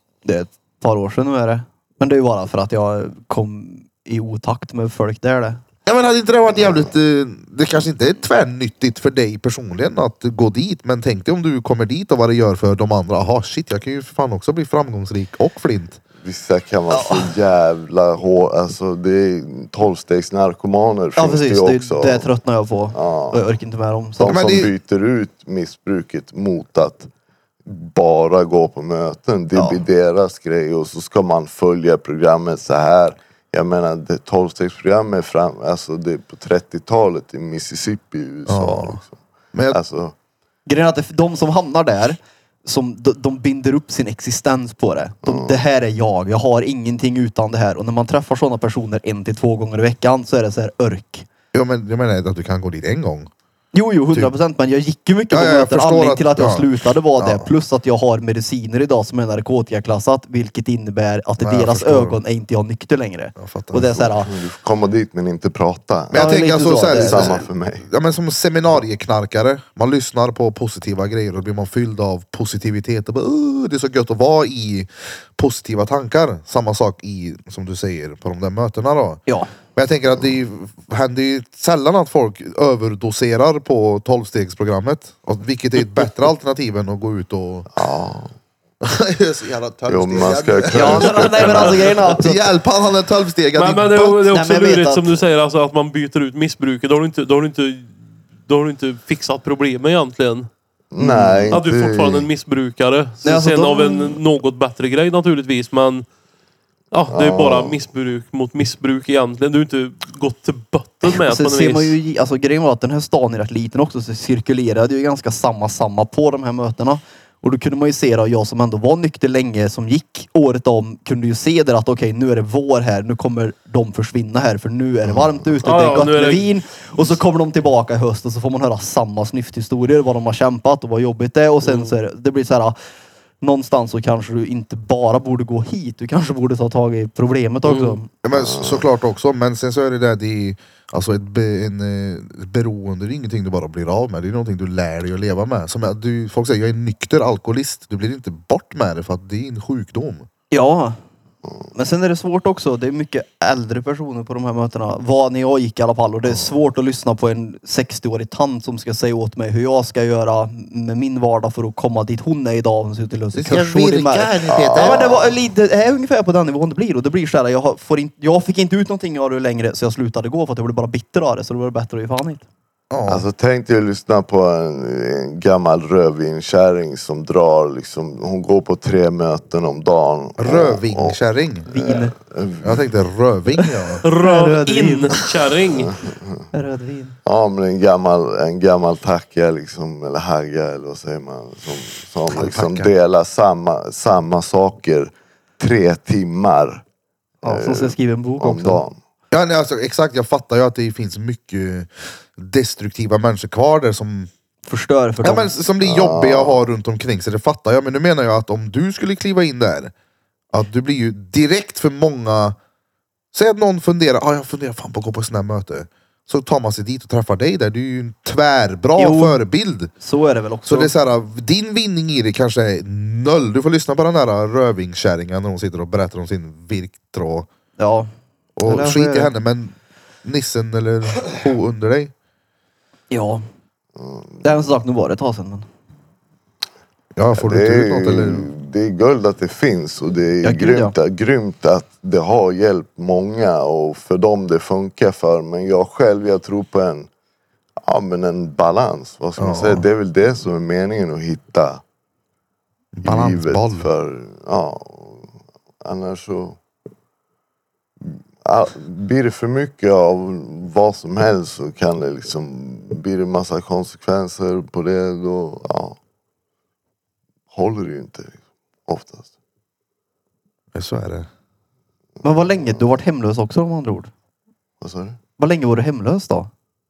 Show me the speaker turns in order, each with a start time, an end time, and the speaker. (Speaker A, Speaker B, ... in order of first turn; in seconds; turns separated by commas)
Speaker A: 0.2-5.6, Speaker B: 5.8-16.0, Speaker C: 16.2-22.3, Speaker A: 16.9-17.3, Speaker A: 21.1-24.6, Speaker C: 22.9-23.4, Speaker C: 24.2-27.1, Speaker B: 24.2-24.7, Speaker C: 27.6-40.1, Speaker B: 38.5-39.0, Speaker B: 39.5-39.8, Speaker A: 40.7-51.2, Speaker C: 45.2-45.6, Speaker B: 51.5-53.3, Speaker A: 53.7-64.3, Speaker B: 55.3-57.5, Speaker B: 61.4-62.2, Speaker B: 63.4-64.1, Speaker C: 64.2-67.9, Speaker B: 66.1-87.7, Speaker A: 66.1-67.4, Speaker C: 87.7-88.3, Speaker B: 88.8-94.3, Speaker C: 89.9-92.0, Speaker A: 90.7-92.5, Speaker D: 93.5-100.5, Speaker A: 94.3-95.2, Speaker C: 100.9-102.3, Speaker A: 101.0-101.5, Speaker D: 101.5-106.0, Speaker A: 103.2-104.2, Speaker D: 106.9-112.0, Speaker C: 107.1-107.8, Speaker A: 111.1-132.8, Speaker C: 125.0-125.3, Speaker D: 125.6-126.5, Speaker D: 131.6-131.9, Speaker A: 133.4-138.1, Speaker D: 137.7-138.0, Speaker B: 138.2-150.3, Speaker C: 138.3-138.8, Speaker A: 150.5-151.0, Speaker A: 151.7-172.4, Speaker B: 163.3-165.1, Speaker C: 164.5-165.3, Speaker B: 172.9-173.3, Speaker C: 173.1-181.2, Speaker B: 180.4-181.7, Speaker A: 181.7-182.1, Speaker C: 181.7-182.8, Speaker B: 182.6-184.0, Speaker A: 183.6-185.2, Speaker D: 184.0-185.9, Speaker C: 185.8-186.4, Speaker A: 186.5-187.2, Speaker C: 187.2-196.8, Speaker B: 192.3-192.9, Speaker A: 197.4-198.8, Speaker C: 197.4-199.0, Speaker B: 199.3-204.3, Speaker A: 204.6-205.5, Speaker B: 205.2-209.9, Speaker C: 205.8-206.6, Speaker B: 210.5-212.6, Speaker B: 213.3-219.9, Speaker A: 218.9-219.4, Speaker A: 220.0-220.9, Speaker B: 220.7-227.5, Speaker A: 227.8-228.1, Speaker B: 228.6-232.1, Speaker A: 228.6-229.3, Speaker A: 233.1-233.4, Speaker C: 234.0-234.4, Speaker A: 234.4-235.7, Speaker B: 237.2-238.5, Speaker C: 237.4-247.1, Speaker A: 240.4-240.9, Speaker C: 247.8-251.8, Speaker B: 249.4-249.9, Speaker B: 252.9-253.9, Speaker C: 253.0-255.3, Speaker C: 255.8-256.6, Speaker C: 258.0-266.0, Speaker C: 267.5-269.3, Speaker B: 270.7-271.3, Speaker A: 272.2-274.1, Speaker C: 274.8-275.2, Speaker A: 275.4-276.5